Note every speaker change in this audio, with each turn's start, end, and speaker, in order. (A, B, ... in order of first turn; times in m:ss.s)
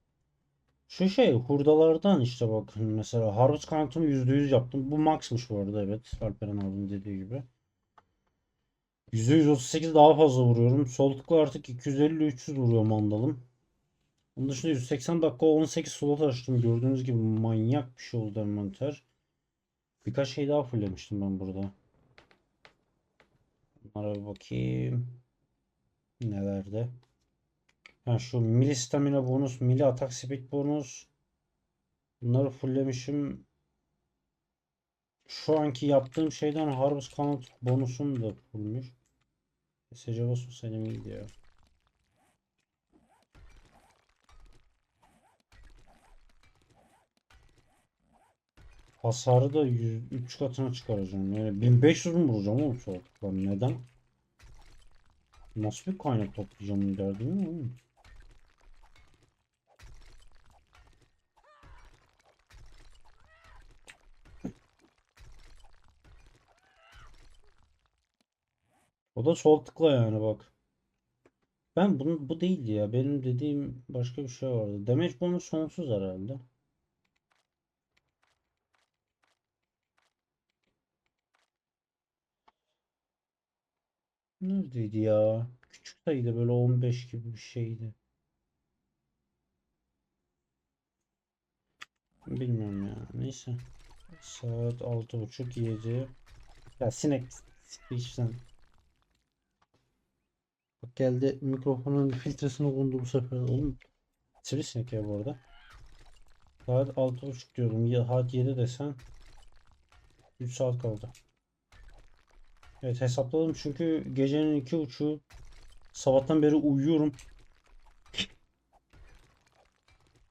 0:00.9-0:07.5 A
0:09.1-0:13.5 A
0:14.3-0:19.1 A
0:20.0-0:21.7 A
0:23.8-0:25.2 A
0:26.2-0:26.9 A
0:28.0-0:31.1 A
0:32.2-0:33.5 A
0:35.2-0:39.0 A
0:39.9-0:41.3 A
0:49.0-0:53.8 A
0:55.5-0:57.8 A
1:09.1-1:10.5 A
1:11.7-1:16.4 A
1:24.4-1:28.0 A
1:32.2-1:36.1 A
1:36.8-1:38.4 A
1:40.8-1:43.8 A
1:44.4-1:45.4 A
1:46.6-1:49.0 A
1:50.4-1:51.1 A
1:52.8-1:55.2 A
1:55.9-1:57.2 A